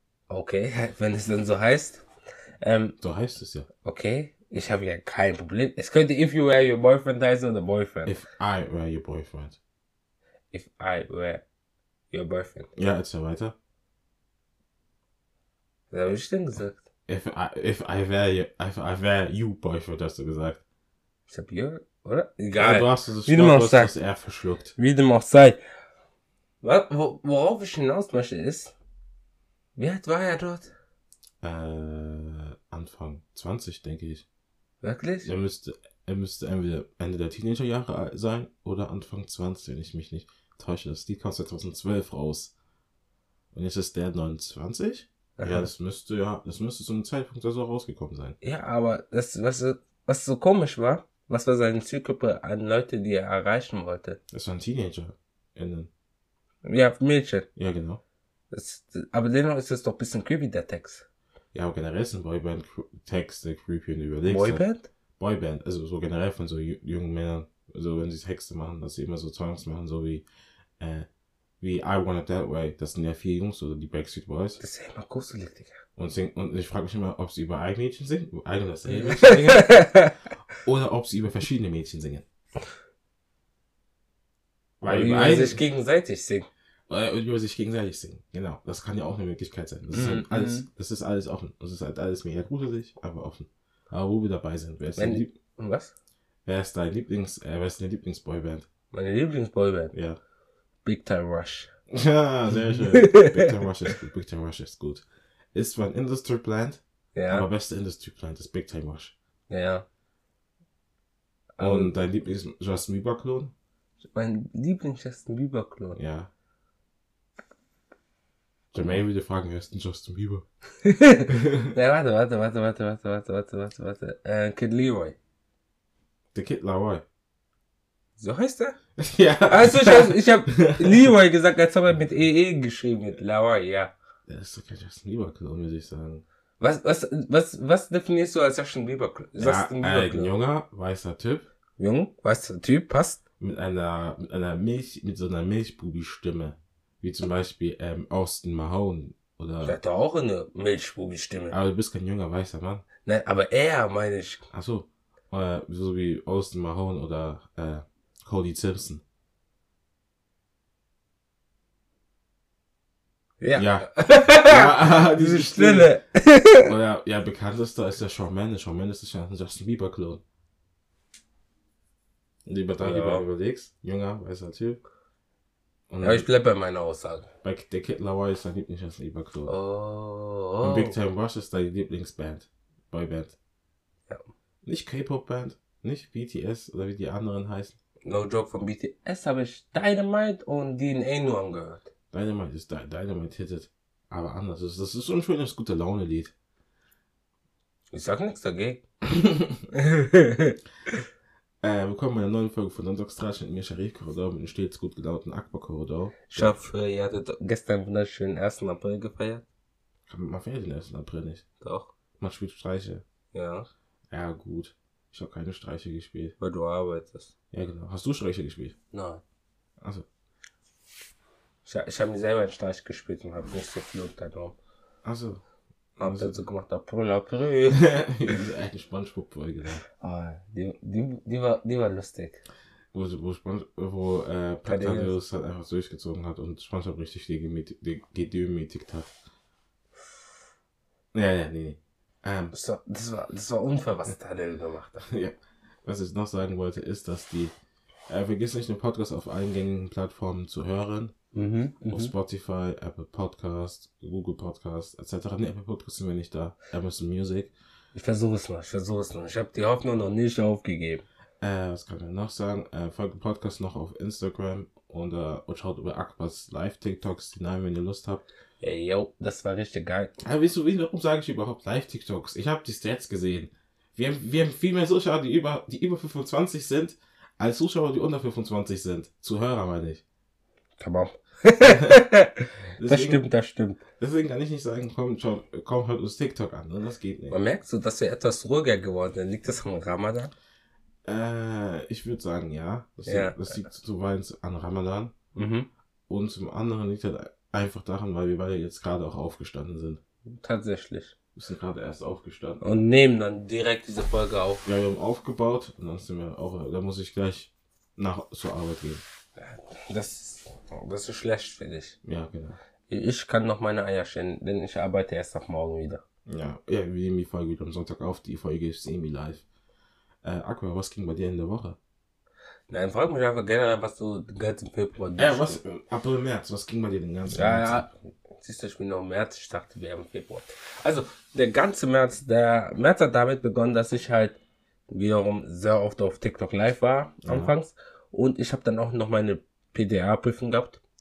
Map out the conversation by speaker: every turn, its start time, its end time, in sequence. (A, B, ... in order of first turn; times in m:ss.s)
0:00.3-0:02.0 A
0:02.6-0:03.0 A
0:03.0-0:03.7 B
0:03.8-0:08.1 A
0:08.1-0:09.6 B
0:10.5-0:11.4 A
0:12.1-0:12.7 A
0:12.8-0:13.5 B
0:15.9-0:16.8 A
0:17.1-0:20.6 B
0:21.3-0:23.9 A
0:22.6-0:24.8 B
0:24.8-0:25.6 A
0:26.6-0:28.8 A
0:29.8-0:30.7 A
0:31.4-0:34.2 B
0:34.8-0:35.3 A
0:35.2-0:42.5 B
0:43.5-0:48.4 B
0:45.4-0:45.7 A
0:48.4-0:54.2 A
0:54.3-0:55.9 B
0:56.6-0:57.5 A
0:57.6-0:58.0 B
0:58.5-1:01.0 A
1:01.5-1:04.6 B
1:04.3-1:04.9 A
1:05.2-1:10.2 B
1:10.8-1:11.1 B
1:11.6-1:14.6 B
1:14.6-1:15.8 A
1:16.0-1:19.9 B
1:18.9-1:20.1 A
1:20.6-1:22.2 B
1:24.8-1:25.6 B
1:24.8-1:26.5 A
1:26.9-1:35.3 B
1:29.9-1:30.7 A
1:35.0-1:35.9 A
1:36.5-1:38.7 B
1:38.9-1:39.9 A
1:39.9-1:40.2 B
1:40.8-1:41.7 A
1:41.9-1:49.1 B
1:43.0-1:43.5 A
1:47.2-1:47.5 A
1:49.5-1:49.8 A
1:51.6-1:51.9 A
1:51.6-1:53.5 B
1:54.1-1:56.0 A
1:56.0-1:56.3 B
1:58.7-2:00.4 B
2:00.8-2:05.2 A
2:01.3-2:01.7 B
2:06.3-2:07.0 B
2:08.2-2:08.8 A
2:09.0-2:11.1 B
2:09.5-2:13.9 A
2:14.3-2:16.2 B
2:16.6-2:20.3 A
2:19.4-2:21.5 B
2:21.8-2:23.2 A
2:23.4-2:29.8 B
2:29.6-2:31.6 A
2:31.5-2:32.8 B
2:33.0-2:34.4 A
2:34.5-2:39.0 B
2:43.4-2:46.7 A
2:43.6-2:46.0 B
2:46.6-2:50.2 B
2:52.5-2:54.8 B
2:52.8-2:53.2 A
2:55.9-2:56.3 B
2:56.0-2:57.3 A
2:57.4-2:59.5 B
2:59.5-3:01.0 A
3:00.6-3:03.4 B
3:04.6-3:07.8 B
3:08.0-3:11.9 A
3:12.1-3:16.3 B
3:17.9-3:18.8 A
3:19.1-3:19.6 B
3:19.7-3:21.0 A
3:21.6-3:26.6 B
3:26.3-3:29.4 A
3:30.1-3:31.4 B
3:31.6-3:31.9 A
3:32.2-3:33.0 B
3:33.3-3:33.7 A
3:34.1-3:36.4 B
3:36.4-3:37.3 A
3:37.5-3:38.8 B
3:38.9-3:39.2 A
3:39.8-3:40.1 B
3:41.6-3:44.6 A
3:45.0-3:45.4 B
3:46.0-3:47.9 A
3:46.0-3:46.4 B
3:47.7-3:49.8 B
3:50.0-3:52.4 A
3:52.9-3:59.1 B
3:54.7-3:55.1 A
4:01.1-4:02.5 B
4:02.5-4:05.1 A
4:05.0-4:07.6 B
4:08.1-4:11.1 B
4:11.3-4:12.1 A
4:11.9-4:17.5 B
4:17.9-4:21.0 A
4:21.4-4:28.2 B
4:28.6-4:30.1 A
4:30.2-4:40.0 B
4:40.8-4:43.8 A
4:41.6-4:42.0 B
4:42.8-4:43.2 B
4:44.0-4:47.4 B
4:47.3-4:50.3 A
4:51.0-4:55.1 B
4:53.1-4:53.6 A
4:55.4-4:55.7 A
4:56.1-5:00.0 B
5:00.3-5:01.1 A
5:01.4-5:02.8 B
5:02.6-5:04.6 A
5:04.6-5:09.0 B
5:09.4-5:12.0 A
5:12.0-5:12.6 B
5:12.9-5:16.0 A
5:16.3-5:19.4 B
5:20.2-5:21.8 B
5:22.7-5:25.6 A
5:25.2-5:27.9 B
5:27.3-5:34.4 A
5:34.9-5:40.8 A
5:37.2-5:37.5 B